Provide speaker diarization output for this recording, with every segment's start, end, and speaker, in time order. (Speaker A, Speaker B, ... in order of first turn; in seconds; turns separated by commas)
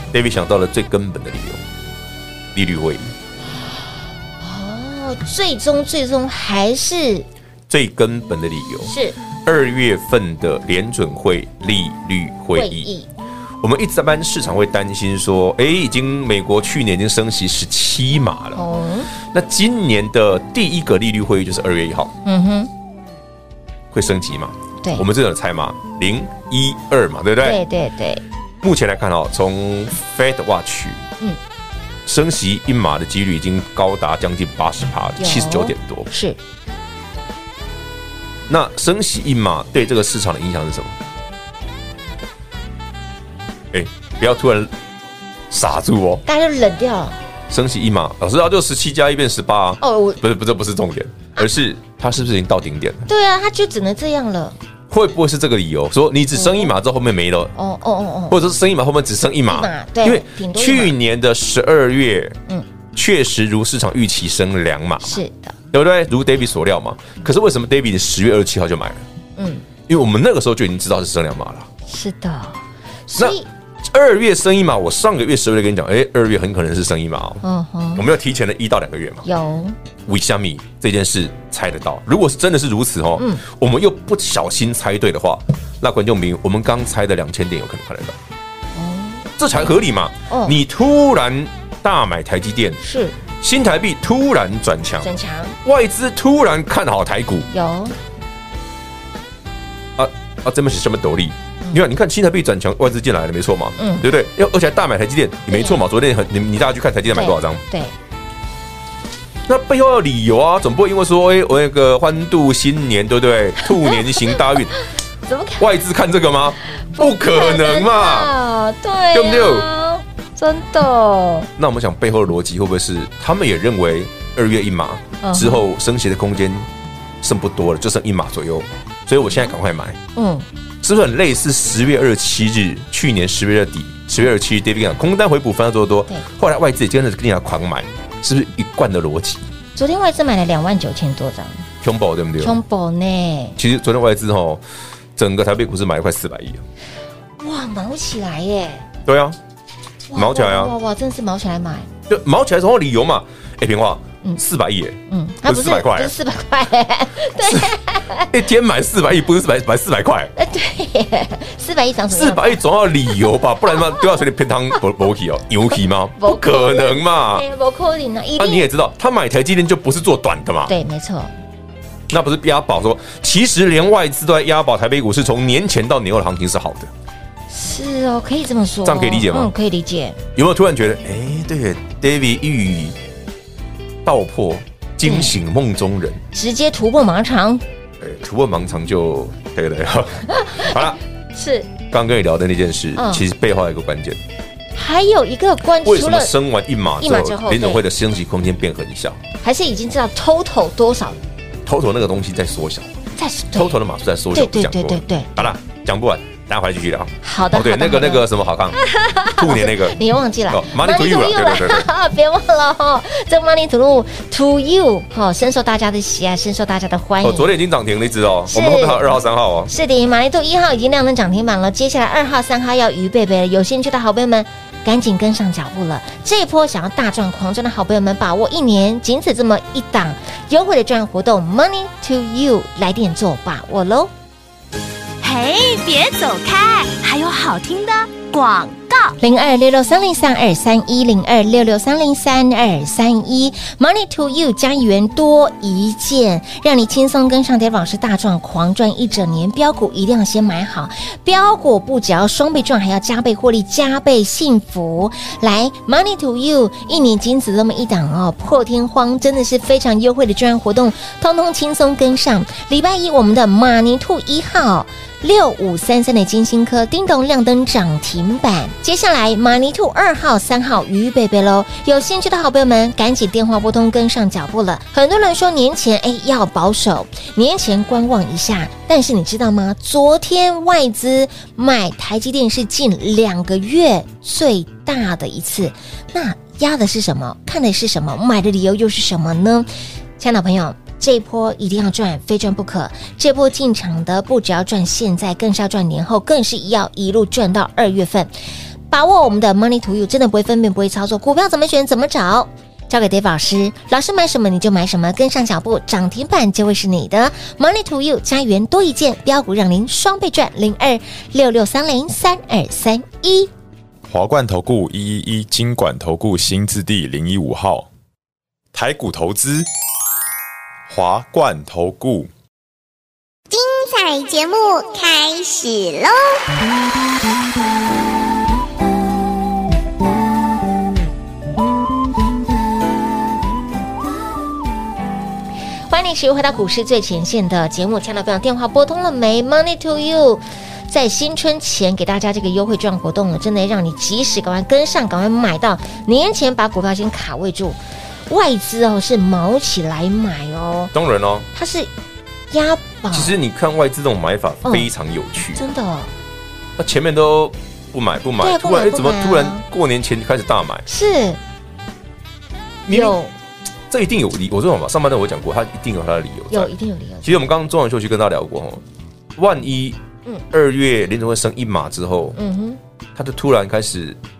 Speaker A: 0.1-1.6, Speaker A: 2.5-3.1, Speaker B: 3.5-7.2, Speaker A: 7.7-8.9, Speaker B: 8.8-9.2, Speaker A: 9.4-12.9, Speaker B: 12.5-13.1, Speaker A: 13.6-18.6, Speaker B: 18.5-19.1, Speaker A: 19.2-22.1, Speaker B: 22.2-22.7, Speaker A: 23.9-27.6, Speaker B: 27.4-28.2, Speaker A: 28.6-31.0, Speaker A: 32.0-36.1, Speaker B: 35.2-36.4, Speaker A: 38.5-41.0, Speaker A: 43.7-44.7, Speaker A: 45.5-46.2, Speaker B: 46.2-47.2, Speaker A: 47.5-53.1, Speaker B: 49.8-50.2, Speaker B: 53.1-54.6, Speaker A: 54.9-57.5, Speaker B: 56.3-56.7, Speaker B: 57.5-58.4, Speaker A: 58.3-62.4, Speaker B: 59.5-61.0, Speaker A: 62.9-65.2, Speaker B: 65.0-65.5, Speaker A: 65.7-69.0, Speaker B: 69.4-69.6, Speaker A: 69.9-71.7, Speaker B: 71.9-73.5, Speaker A: 73.2-77.4, Speaker B: 77.4-78.1, Speaker A: 77.9-79.2, Speaker B: 79.2-79.8, Speaker A: 80.0-88.2, Speaker B: 83.2-83.4, Speaker B: 88.7-89.3, Speaker A: 89.4-92.8, Speaker B: 90.3-90.6, Speaker B: 92.8-93.2, Speaker A: 93.4-95.1, Speaker B: 95.0-95.6, Speaker A: 95.6-97.5, Speaker B: 97.5-98.0, Speaker A: 100.0-107.6, Speaker B: 103.8-104.1, Speaker B: 105.5-105.8, Speaker B: 107.1-107.9, Speaker A: 109.5-114.7, Speaker B: 113.6-114.4, Speaker B: 115.2-115.7, Speaker A: 115.6-118.3, Speaker B: 116.7-121.5, Speaker A: 119.1-119.7, Speaker A: 121.6-126.7, Speaker B: 125.2-125.6, Speaker A: 127.2-130.0, Speaker B: 130.1-130.4, Speaker A: 130.8-139.4, Speaker B: 139.8-141.7, Speaker A: 141.8-142.6, Speaker B: 142.4-143.6, Speaker A: 143.6-144.6, Speaker A: 145.2-146.6, Speaker B: 147.4-148.8, Speaker A: 149.1-149.4, Speaker B: 150.1-151.9, Speaker A: 150.1-150.7, Speaker A: 152.1-156.1, Speaker B: 155.1-158.3, Speaker A: 157.4-157.7, Speaker A: 158.3-160.3, Speaker B: 160.3-162.6, Speaker A: 162.1-167.4, Speaker B: 166.2-168.7, Speaker A: 168.4-170.7, Speaker B: 170.7-171.3, Speaker A: 172.1-176.9, Speaker B: 177.5-180.2, Speaker A: 178.8-179.5, Speaker A: 180.3-183.0, Speaker A: 184.0-186.2, Speaker B: 185.0-185.4, Speaker B: 186.3-187.6, Speaker A: 188.0-191.0, Speaker B: 190.3-191.7, Speaker A: 191.9-194.2, Speaker B: 192.9-193.2, Speaker B: 194.7-196.3, Speaker A: 195.8-199.2, Speaker B: 197.0-197.8, Speaker B: 199.4-201.2, Speaker A: 201.6-202.9, Speaker B: 203.2-203.8, Speaker A: 203.5-211.9, Speaker B: 204.3-205.5, Speaker B: 207.2-217.5, Speaker A: 217.2-219.7, Speaker B: 218.5-219.1, Speaker B: 219.7-234.1, Speaker C: 235.2-239.2, Speaker B: 239.2-298.3, Speaker B: 298.9-313.5, Speaker D: 314.1-317.9, Speaker D: 318.7-319.7, Speaker D: 320.9-322.3, Speaker E: 323.5-326.4, Speaker B: 335.9-350.9, Speaker A: 350.9-351.5, Speaker B: 351.5-351.9, Speaker B: 352.5-353.4, Speaker A: 353.1-355.6, Speaker B: 354.6-354.9, Speaker B: 355.5-356.1, Speaker A: 356.8-360.9, Speaker B: 358.4-359.6, Speaker B: 360.9-361.4, Speaker A: 362.9-363.2, Speaker B: 362.9-363.3, Speaker A: 363.9-366.7, Speaker B: 366.5-367.4, Speaker A: 367.2-368.8, Speaker A: 369.4-370.0, Speaker A: 370.5-372.4, Speaker B: 372.4-372.8, Speaker A: 373.1-374.2